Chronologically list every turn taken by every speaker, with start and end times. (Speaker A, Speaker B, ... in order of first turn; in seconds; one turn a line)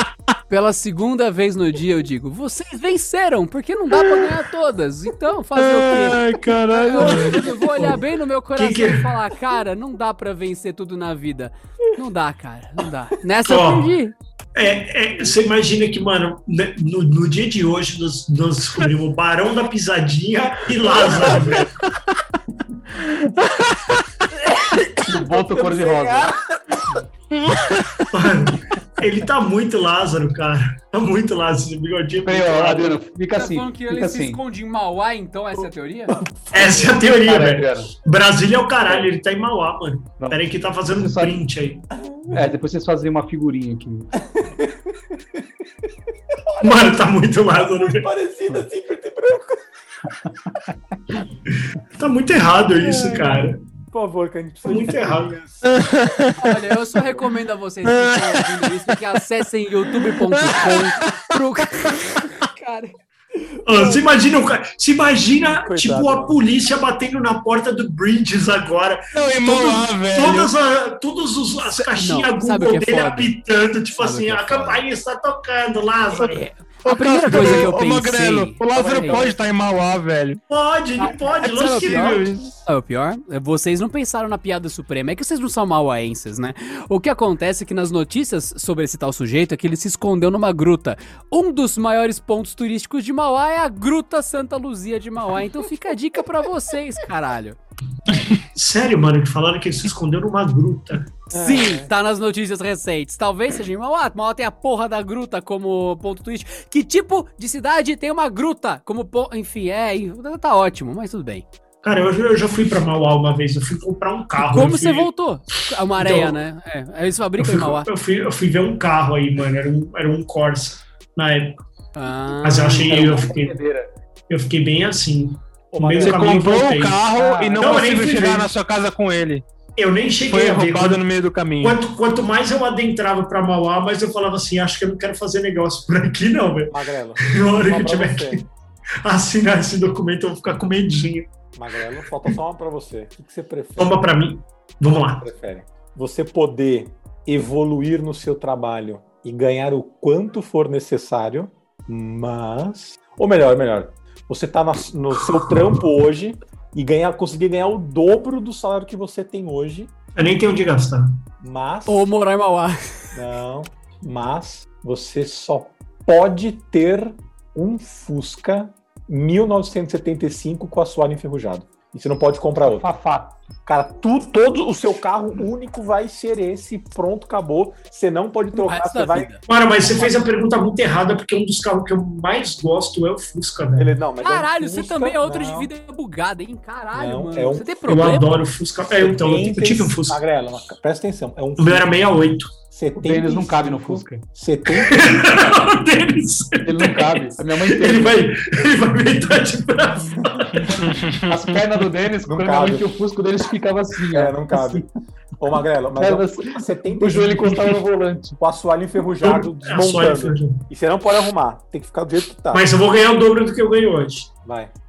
Speaker A: 0.5-14.1
Speaker B: 5.5-7.5
Speaker C: 7.8-8.0
Speaker C: 8.6-9.1
Speaker C: 13.5-13.9
Speaker C: 14.5-21.8
Speaker D: 21.1-21.3
Speaker E: 25.0-26.3
Speaker D: 25.2-26.8
Speaker B: 27.5-28.1
Speaker C: 28.1-33.0
Speaker E: 32.2-34.4
Speaker A: 33.3-36.1
Speaker D: 36.2-36.9
Speaker C: 36.5-41.8
Speaker E: 37.0-37.9
Speaker E: 40.2-41.4
Speaker D: 41.9-42.5
Speaker E: 42.3-44.1
Speaker D: 44.3-45.5
Speaker D: 46.5-46.9
Speaker C: 46.6-48.1
Speaker D: 47.6-49.6
Speaker C: 52.0-53.6
Speaker D: 52.8-55.9
Speaker C: 54.6-55.3
Speaker B: 55.6-56.4
Speaker A: 56.4-62.9
Speaker B: 57.9-58.7
Speaker B: 60.2-61.2
Speaker C: 63.6-76.4
Speaker D: 65.4-66.4
Speaker B: 69.1-70.5
Speaker A: 71.6-73.3
Speaker A: 73.9-74.8
Speaker A: 76.1-79.3
Speaker B: 76.8-80.4
Speaker D: 78.7-79.4
Speaker C: 80.5-82.3
Speaker A: 81.0-97.6
Speaker B: 81.8-82.5
Speaker C: 98.5-101.1
Speaker D: 101.3-101.9
Speaker A: 101.3-111.5
Speaker C: 111.8-115.1
Speaker A: 114.4-117.9
Speaker C: 116.0-116.4
Speaker C: 117.4-121.6
Speaker A: 121.9-123.0
Speaker C: 122.4-123.5
Speaker E: 122.8-123.9
Speaker C: 124.3-127.0
Speaker D: 125.7-126.3
Speaker B: 126.0-129.4
Speaker E: 127.1-128.0
Speaker C: 127.6-128.5
Speaker C: 129.8-131.0
Speaker B: 130.3-131.8
Speaker C: 131.6-138.5
Speaker D: 136.7-138.4
Speaker C: 139.0-141.3
Speaker D: 141.5-144.0
Speaker C: 143.8-145.3
Speaker D: 145.2-159.9
Speaker C: 160.2-161.2
Speaker D: 161.4-162.1
Speaker A: 161.9-163.1
Speaker D: 163.1-172.9
Speaker E: 172.6-173.4
Speaker D: 173.7-179.3
Speaker A: 178.5-179.4
Speaker C: 179.5-183.9
Speaker D: 183.8-185.7
Speaker A: 184.2-188.4
Speaker D: 186.9-187.7
Speaker C: 187.9-190.2
Speaker D: 188.8-191.9
Speaker C: 191.6-192.5
Speaker D: 192.7-195.0
Speaker E: 193.0-194.2
Speaker C: 194.8-200.7
Speaker E: 196.6-198.3
Speaker B: 200.6-201.6
Speaker E: 201.3-204.8
Speaker D: 202.2-203.0
Speaker D: 204.1-204.8
Speaker D: 205.4-207.8
Speaker E: 206.0-208.4
Speaker D: 208.4-212.7
Speaker C: 209.2-210.6
Speaker C: 212.5-214.3
Speaker D: 214.4-214.7